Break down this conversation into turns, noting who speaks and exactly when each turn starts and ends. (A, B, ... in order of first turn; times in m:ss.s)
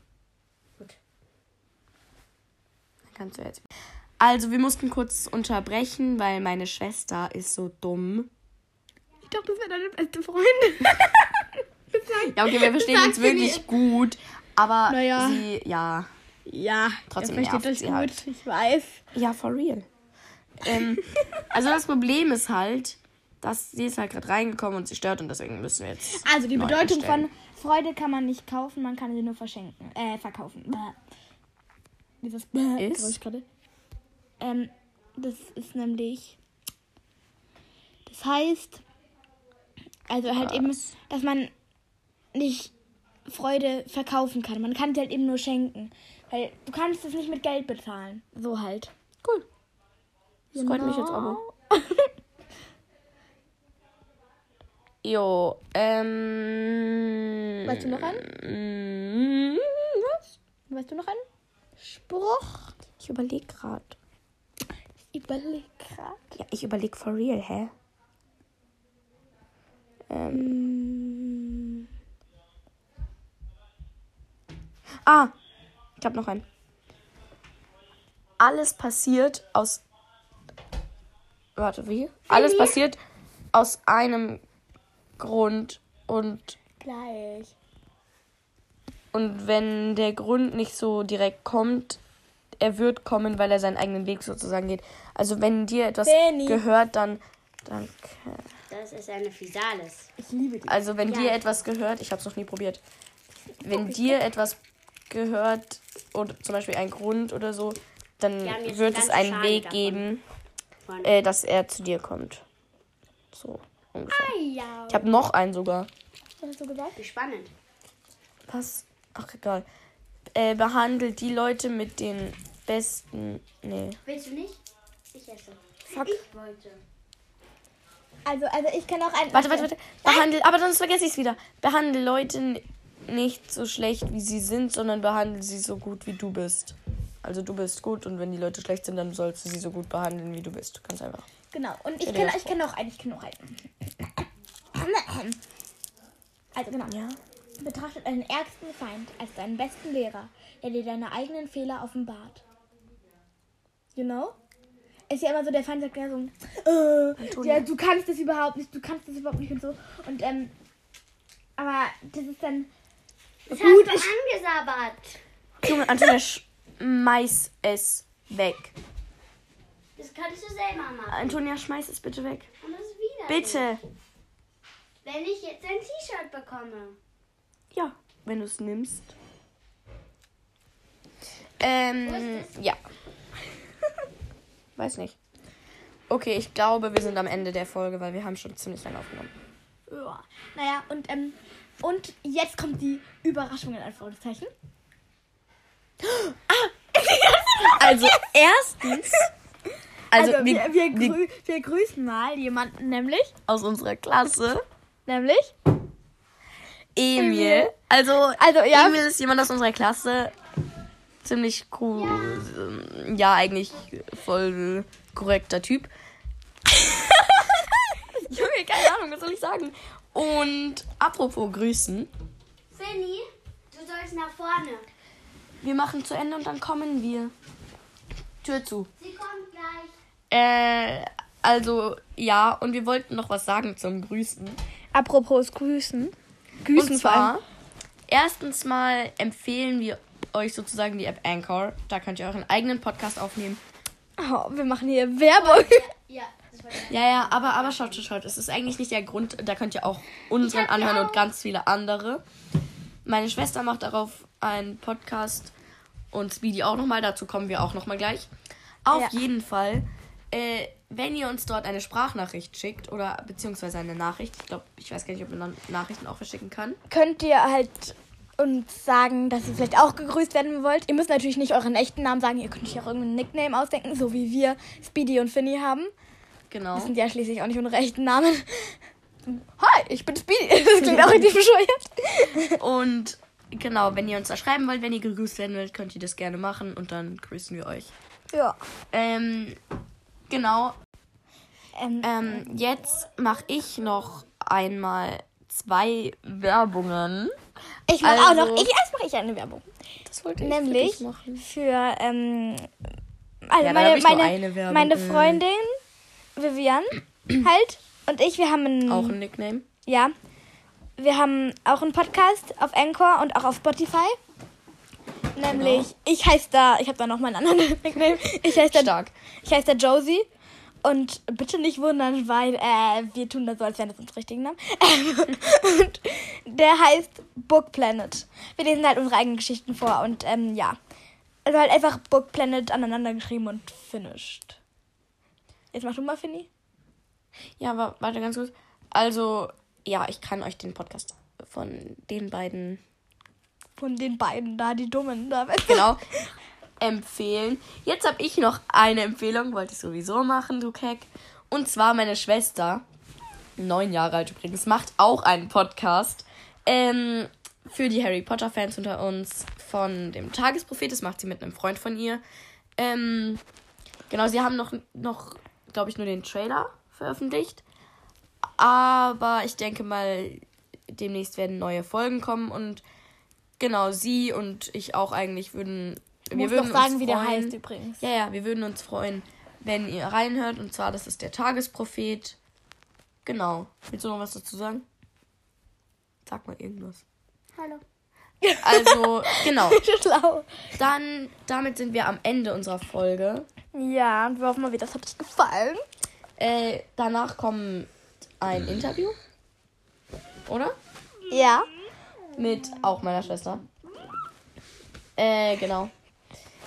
0:03.1-0:03.6 A
0:04.2-0:08.3 A
0:09.2-0:13.8 B
0:12.2-0:16.1 A
0:14.9-0:15.5 B
0:16.5-0:19.0 B
0:17.1-0:18.1 A
0:19.1-0:19.9 A
0:20.6-0:27.3 A
0:26.1-0:31.0 B
0:32.2-0:33.4 B
0:32.8-0:33.2 A
0:34.4-0:36.4 B
0:38.1-0:38.8 B
0:40.1-0:41.5 B
0:40.2-0:40.9 A
0:42.3-0:42.7 B
0:43.3-0:48.9 B
0:50.5-0:51.4 A
0:50.5-0:52.1 B
0:55.0-1:00.2 A
0:57.6-0:58.2 B
1:00.7-1:01.3 B
1:01.8-1:02.7 B
1:03.0-1:04.0 A
1:05.1-1:06.2 B
1:06.4-1:07.7 A
1:10.1-1:10.6 A
1:10.3-1:11.8 B
1:15.0-1:15.3 A
1:16.0-1:16.4 A
1:18.4-1:19.8 A
1:21.6-1:23.0 A
1:23.5-1:24.4 A
1:25.2-1:26.6 A
1:26.8-1:27.6 B
1:29.1-1:32.0 A
1:32.6-1:38.5 A
1:36.0-1:36.6 B
1:38.7-1:40.1 C
1:40.2-1:40.8 B
1:40.7-1:42.8 A
1:41.1-1:41.6 C
1:43.6-1:44.6 A
1:43.6-1:44.2 B
1:45.1-1:50.2 A
1:48.4-1:50.1 C
1:50.9-1:51.2 C
1:51.0-1:52.4 A
1:53.3-1:54.4 A
1:54.1-1:55.0 C
1:54.3-1:54.9 B
1:54.9-1:55.9 A
1:56.4-1:57.0 B
1:57.0-1:57.5 C
1:58.5-1:59.7 A
2:00.3-2:04.0 A
2:04.1-2:04.6 C
2:05.1-2:06.8 C
2:05.9-2:06.2 A
2:08.2-2:09.7 B
2:09.3-2:21.3 A
2:21.5-2:25.4 B
2:22.0-2:22.6 A
2:26.6-2:27.0 B
2:26.9-2:27.2 A
2:27.6-2:32.4 B
2:34.0-2:34.4 B
2:35.1-2:40.5 B
2:37.2-2:37.7 A
2:41.6-2:42.7 B
2:43.5-2:45.2 C
2:43.5-2:44.1 B
2:45.6-2:48.8 A
2:50.0-2:51.4 C
2:51.1-2:52.5 A
2:52.6-2:53.7 C
2:53.3-2:53.8 A
2:55.0-2:57.0 C
2:57.7-2:59.2 A
3:01.6-3:02.8 A
3:02.0-3:02.6 C
3:04.8-3:05.2 A
3:06.1-3:09.3 A
3:09.9-3:14.5 B
3:16.0-3:18.3 B
3:17.8-3:19.3 A
3:18.9-3:19.2 B
3:20.1-3:21.2 A
3:20.1-3:23.3 B
3:23.5-3:24.6 A
3:25.1-3:25.5 B
3:27.0-3:30.3 A
3:27.2-3:27.7 B
3:28.4-3:29.0 B
3:31.2-3:35.9 A
3:32.0-3:32.4 C
3:38.2-3:42.1 A
3:42.7-3:44.9 C
3:45.6-3:47.3 A
3:48.4-3:48.9 A
3:49.0-3:49.9 C
3:50.3-3:54.6 A
3:54.9-3:57.4 B
3:56.8-3:57.4 A
3:58.1-4:03.6 A
4:04.2-4:05.9 B
4:05.4-4:08.0 C
4:06.9-4:12.2 A
4:10.4-4:11.2 C
4:13.0-4:15.5 A
4:16.1-4:18.3 A
4:18.8-4:26.8 A
4:26.9-4:35.9 B
4:36.5-4:36.9 A
4:36.8-4:38.8 B
4:39.3-4:42.6 B
4:42.6-4:47.9 A
4:48.3-4:48.6 B
4:48.9-4:49.6 A
4:50.3-4:50.8 A
4:51.8-4:52.5 B
4:52.0-4:57.3 A
4:57.9-4:59.6 B
4:58.0-4:58.7 A
5:00.0-5:01.4 A
5:00.4-5:02.7 B
5:03.5-5:05.7 B
5:03.6-5:05.4 A
5:06.4-5:09.2 B
5:08.9-5:09.7 A
5:09.9-5:10.1 B
5:11.0-5:14.2 B
5:15.4-5:20.3 B
5:15.4-5:15.9 A
5:18.5-5:19.1 A
5:20.8-5:30.8 B
5:31.4-5:34.6 B
5:35.7-5:36.5 B
5:37.6-5:42.8 A
5:43.8-5:46.1 B
5:45.7-5:46.0 A
5:46.8-5:52.8 A
5:53.6-6:02.2 A
6:02.8-6:03.4 A
6:04.1-6:07.6 A
6:08.6-6:12.8 A
6:13.6-6:22.4 A
6:16.3-6:18.0 B
6:23.2-6:24.9 A
6:26.3-6:27.0 A
6:28.4-6:30.5 B
6:28.6-6:29.8 A
6:30.8-6:33.5 A
6:33.7-6:35.8 B
6:36.4-6:37.9 A
6:38.4-6:39.2 A
6:40.5-6:40.8 A
6:41.3-6:41.7 B
6:42.4-6:43.6 A
6:45.2-6:45.9 A